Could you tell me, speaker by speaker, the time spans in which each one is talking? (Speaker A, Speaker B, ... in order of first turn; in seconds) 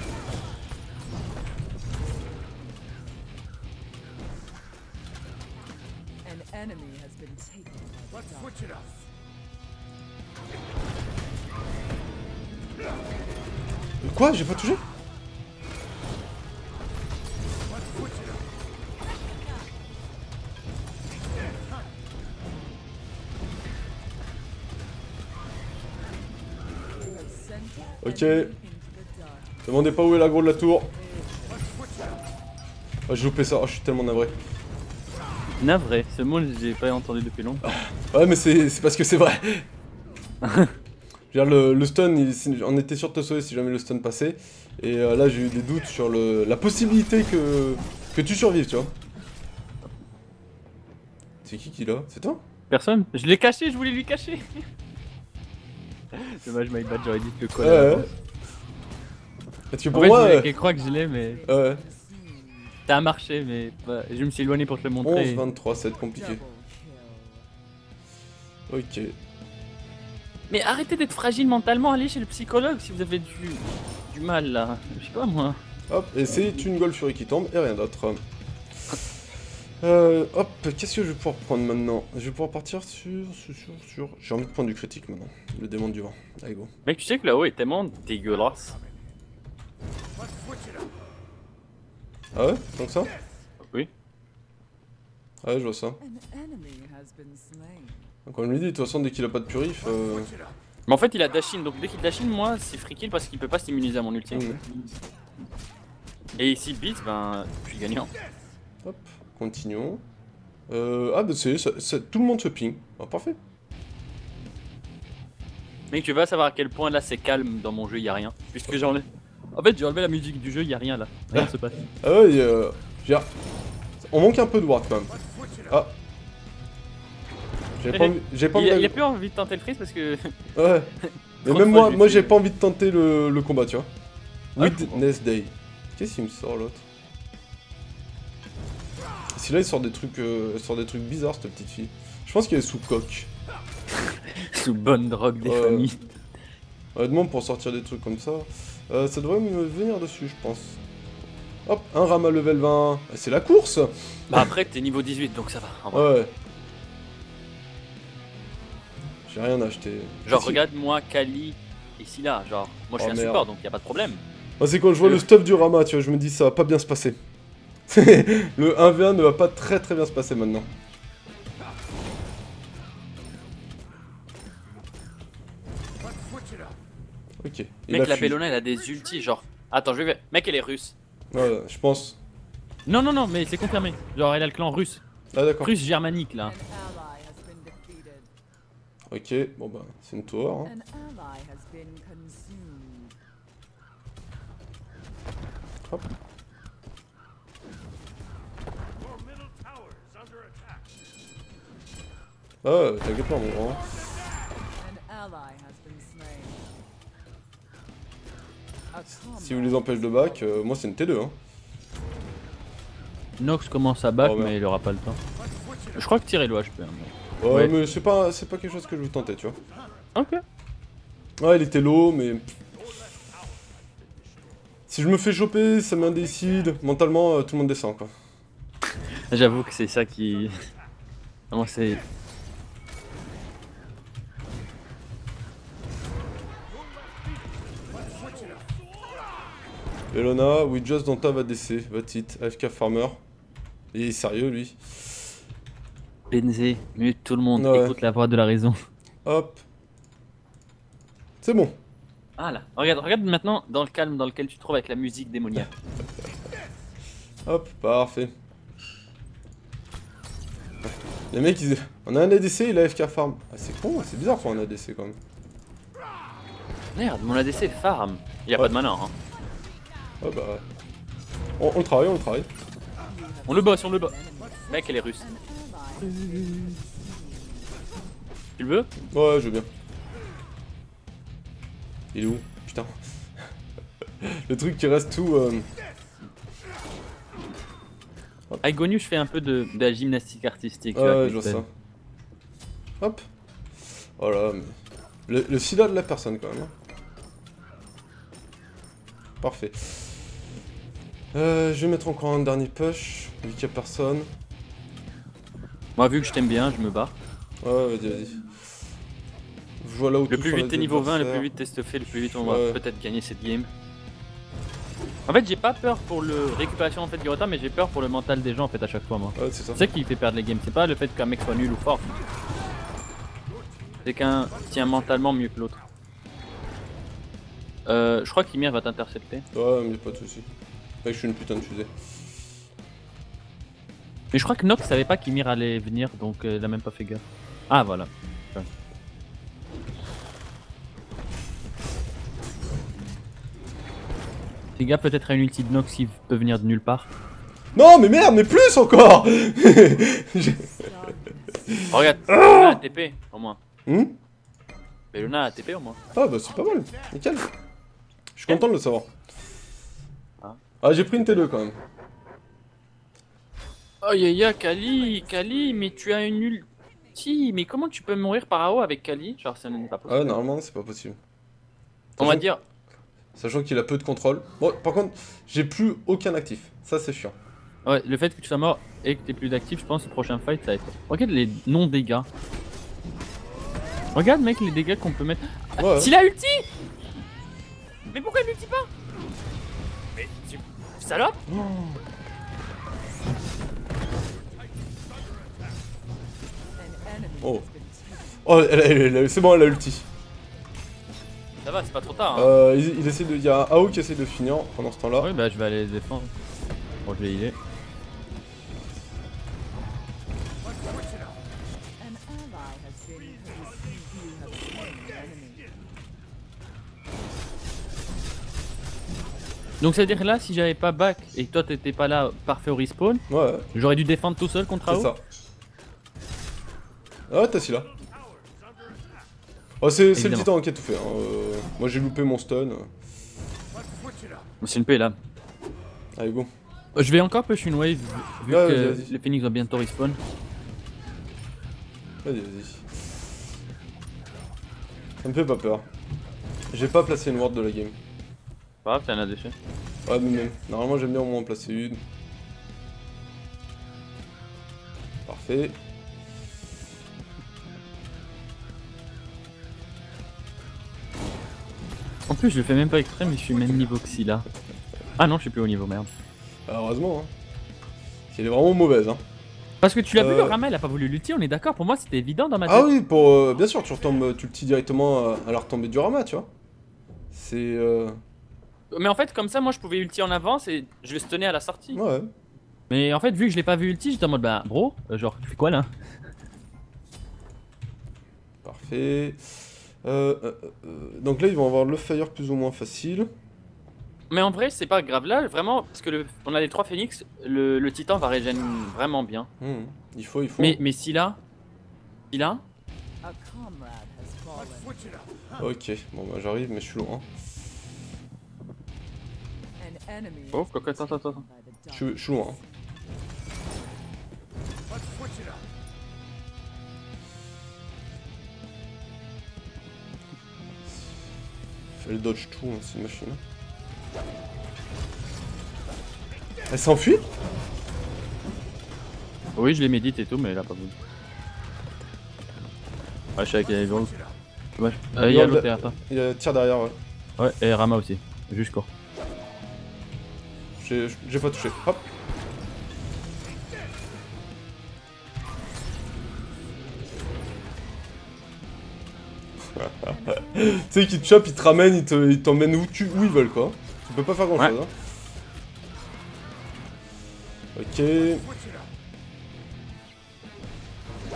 Speaker A: 6.2-9.0, 27.0-29.8, 30.9-32.0, 60.2-62.8, 66.0-67.5, 96.0-98.1, 186.4-188.3, 190.6-193.2, 204.8-206.8, 208.9-210.8, 273.0-277.8, 350.7-351.8, 365.2-365.9, 396.8-398.7, 412.0-415.8, 503.2-505.2, 509.8-512.6, 550.1-551.6
Speaker B: 14.0-14.8, 28.0-28.5, 29.7-30.9, 33.1-34.4, 37.6-39.7, 41.3-48.9, 51.4-52.4, 57.6-58.1, 59.7-60.5, 61.5-61.8, 65.0-66.4, 68.7-69.2, 75.9-78.2, 79.8-86.7, 92.3-93.1, 95.4-96.0, 98.3-100.3, 104.3-104.6, 108.8-110.0, 110.7-113.4, 121.3-123.3, 124.0-125.1, 125.7-126.0, 127.8-129.0, 130.6-130.9, 131.4-133.9, 134.6-136.8, 139.3-143.3, 145.4-145.9, 146.9-150.8, 151.7-154.5, 155.9-156.3, 159.3-160.6, 163.0-163.5, 164.6-167.2, 167.9-170.7, 177.4-178.4, 181.3-182.2, 185.3-185.7, 189.1-190.7, 202.6-203.8, 209.3-211.3, 214.2-214.5, 217.4-219.6, 221.4-222.4, 224.9-228.1, 240.1-243.2, 243.9-245.3, 247.6-248.0, 249.2-249.6, 251.4-251.8, 257.5-258.3, 260.9-265.2, 270.2-270.6, 271.6-272.5, 279.1-279.7, 282.1-283.0, 284.2-285.7, 290.9-291.7, 293.0-293.2, 294.2-296.7, 299.4-300.2, 301.3-304.3, 307.6-308.5, 309.8-311.5, 312.4-312.8, 319.4-319.9, 329.5-330.5, 331.0-331.9, 347.8-350.9, 351.7-352.8, 353.9-354.1, 356.1-357.5, 358.4-359.1, 360.8-361.8, 370.1-371.2, 372.2-372.5, 373.4-377.4, 385.8-386.1, 391.5-392.0, 398.4-400.1, 402.3-405.3, 423.3-423.7, 424.9-425.2, 427.3-427.9, 429.8-432.9, 436.2-436.5, 438.5-439.1, 442.2-442.9, 445.2-445.9, 446.7-448.0, 450.1-452.0, 455.3-455.8, 466.7-467.3, 468.3-469.2, 470.1-470.6, 472.7-476.5, 477.3-478.2, 481.9-482.3, 488.6-493.3, 499.6-500.8, 505.6-507.3, 511.9-512.6, 522.0-523.4, 526.7-527.3, 535.2-537.0, 540.8-542.0, 549.8-554.9, 557.8-558.5
Speaker C: 35.6-37.7, 40.4-40.7, 52.7-54.6, 56.1-58.1, 59.9-61.5, 62.9-65.4, 70.5-75.6, 86.9-88.8, 100.9-104.7, 106.4-108.1, 115.9-121.9, 127.9-130.4, 131.1-132.4, 134.6-135.0, 144.1-146.0, 154.3-156.1, 160.3-164.2, 177.9-180.9, 182.9-185.0, 185.6-186.6, 213.4-215.2, 215.9-217.7, 220.2-220.4, 229.3-230.5, 231.5-232.0, 246.3-248.8, 252.4-255.7, 266.9-269.1, 273.5-274.1, 274.7-275.3, 276.1-276.6, 278.6-278.9, 288.6-291.6, 306.0-307.1, 310.3-313.7, 315.3-322.1, 324.0-325.8, 327.9-329.5, 334.3-338.7, 344.8-347.1, 351.9-353.6, 355.1-356.0, 364.0-370.4, 372.2-372.6, 377.9-382.3, 384.1-386.7, 388.1-388.9, 390.2-391.4, 401.6-402.5, 405.2-406.3, 407.1-407.6, 419.8-425.1, 430.1-430.5, 434.6-435.2, 437.0-440.2, 448.9-449.6, 462.3-464.5, 465.2-466.1, 469.8-472.9, 478.9-482.0, 482.9-485.9, 494.3-499.5, 500.6-501.4, 502.3-502.6, 510.5-511.4, 529.6-530.9, 533.4-534.1, 534.8-535.9, 537.4-538.9